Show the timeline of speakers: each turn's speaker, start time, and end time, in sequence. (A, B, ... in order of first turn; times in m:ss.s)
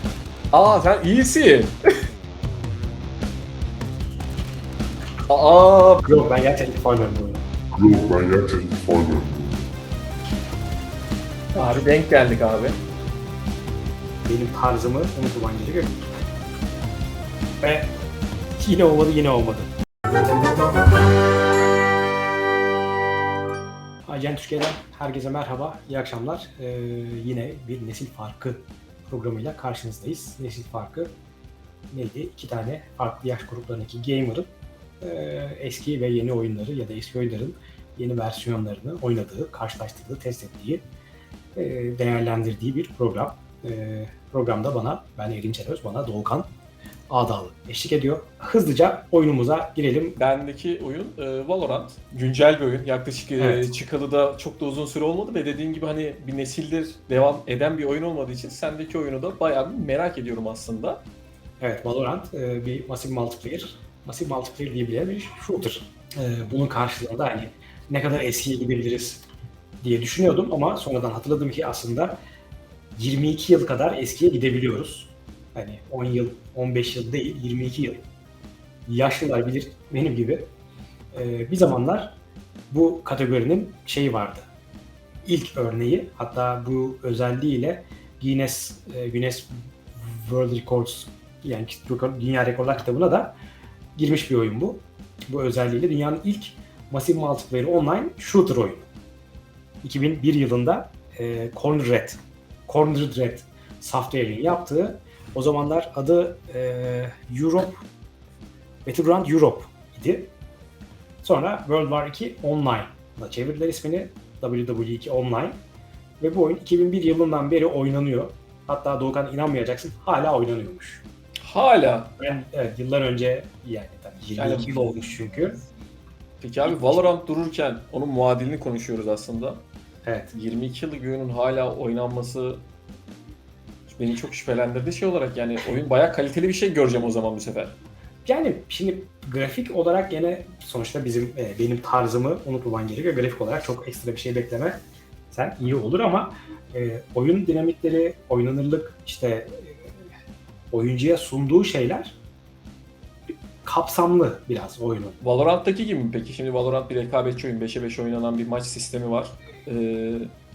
0:00.5-0:01.7 A
0:05.3-0:06.1 A
0:06.1-0:07.4 B
0:07.8-0:09.7 C
0:11.6-0:12.8 A
0:14.3-0:16.0 B
0:17.6-0:17.9 B
0:18.6-0:19.7 B
0:24.0-0:31.1 B
0:31.9-0:40.8 B
0:41.6-0:46.5 B
0:47.1-0:50.2 B
0:50.2-1:01.0 A
0:53.4-0:53.7 B
1:01.6-1:09.2 B
1:09.8-1:12.2 B
1:13.0-1:18.0 B
1:18.9-1:20.5 B
1:21.1-1:22.2 B
1:22.7-1:24.5 B
1:25.2-1:33.4 B
1:34.0-1:38.9 B
1:39.8-1:47.8 B
1:48.8-1:50.3 B
1:51.2-1:55.6 B
1:56.2-2:01.0 B
2:01.4-2:02.2 A
2:02.2-2:05.6 B
2:04.4-2:04.9 A
2:06.4-2:09.6 A
2:06.6-2:07.1 B
2:10.0-2:10.3 B
2:10.3-2:12.7 A
2:13.9-2:17.8 A
2:18.2-2:30.0 B
2:30.7-2:32.2 B
2:33.6-2:35.2 B
2:35.2-2:40.3 A